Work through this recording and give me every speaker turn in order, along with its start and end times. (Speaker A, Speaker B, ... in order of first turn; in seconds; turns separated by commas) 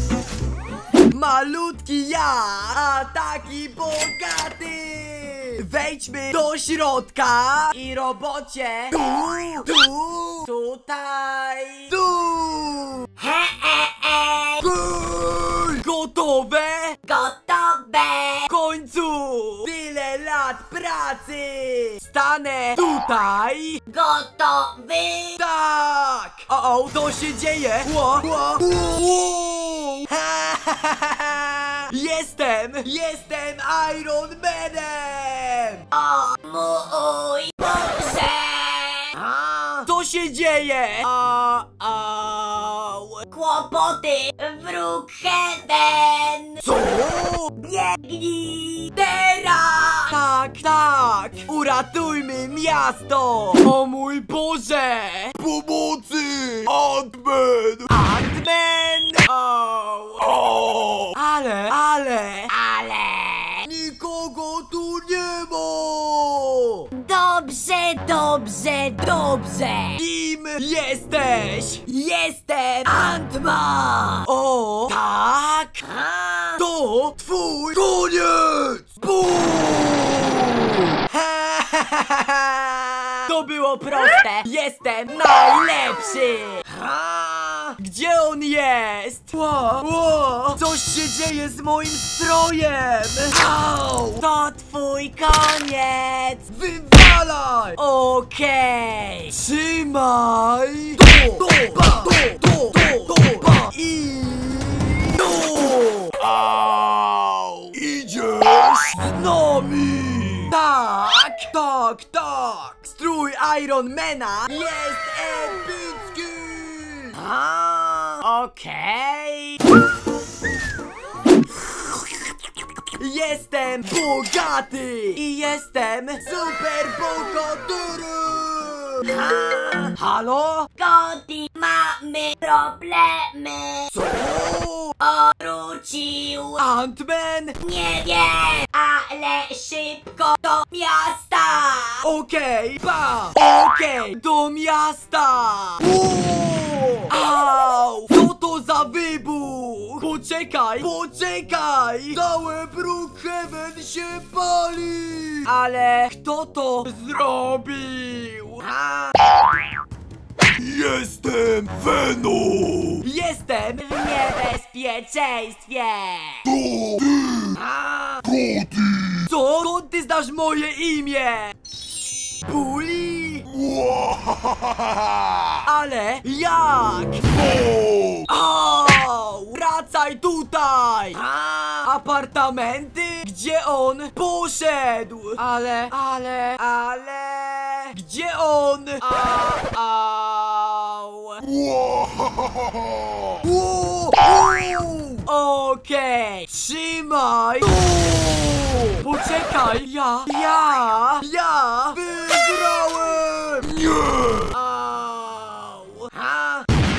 Speaker A: 1.1-13.2, Speaker B: 13.2-14.6, Speaker A: 14.8-17.0, Speaker B: 17.1-18.5, Speaker A: 18.5-23.9, Speaker B: 23.9-25.4, Speaker A: 25.4-35.9, Speaker B: 35.9-39.8, Speaker A: 39.8-43.3, Speaker B: 43.3-46.6, Speaker A: 46.6-47.5, Speaker B: 47.6-49.1, Speaker A: 49.0-55.3, Speaker C: 55.4-57.9, Speaker A: 57.9-60.5, Speaker C: 60.2-61.1, Speaker A: 61.1-66.9, Speaker B: 66.9-69.9, Speaker A: 69.9-75.9, Speaker B: 75.9-76.5, Speaker A: 76.5-106.3, Speaker C: 106.2-110.5, Speaker A: 109.0-109.7, Speaker A: 110.4-119.6, Speaker B: 117.3-117.8, Speaker A: 122.9-129.2, Speaker B: 129.2-129.8, Speaker A: 129.8-130.7, Speaker B: 130.8-133.9, Speaker A: 133.9-135.0, Speaker B: 135.0-136.6, Speaker A: 136.6-137.6, Speaker B: 137.6-142.0, Speaker A: 142.0-159.3, Speaker C: 160.6-163.0, Speaker A: 163.0-166.4, Speaker C: 166.4-167.6, Speaker A: 167.5-168.2, Speaker C: 168.2-169.2, Speaker A: 169.2-171.6, Speaker A: 172.4-173.5, Speaker C: 173.5-175.4, Speaker A: 175.6-177.3, Speaker C: 177.3-178.2, Speaker A: 178.2-191.4, Speaker C: 191.4-193.3, Speaker A: 193.4-203.8, Speaker C: 203.7-204.5, Speaker A: 204.5-206.7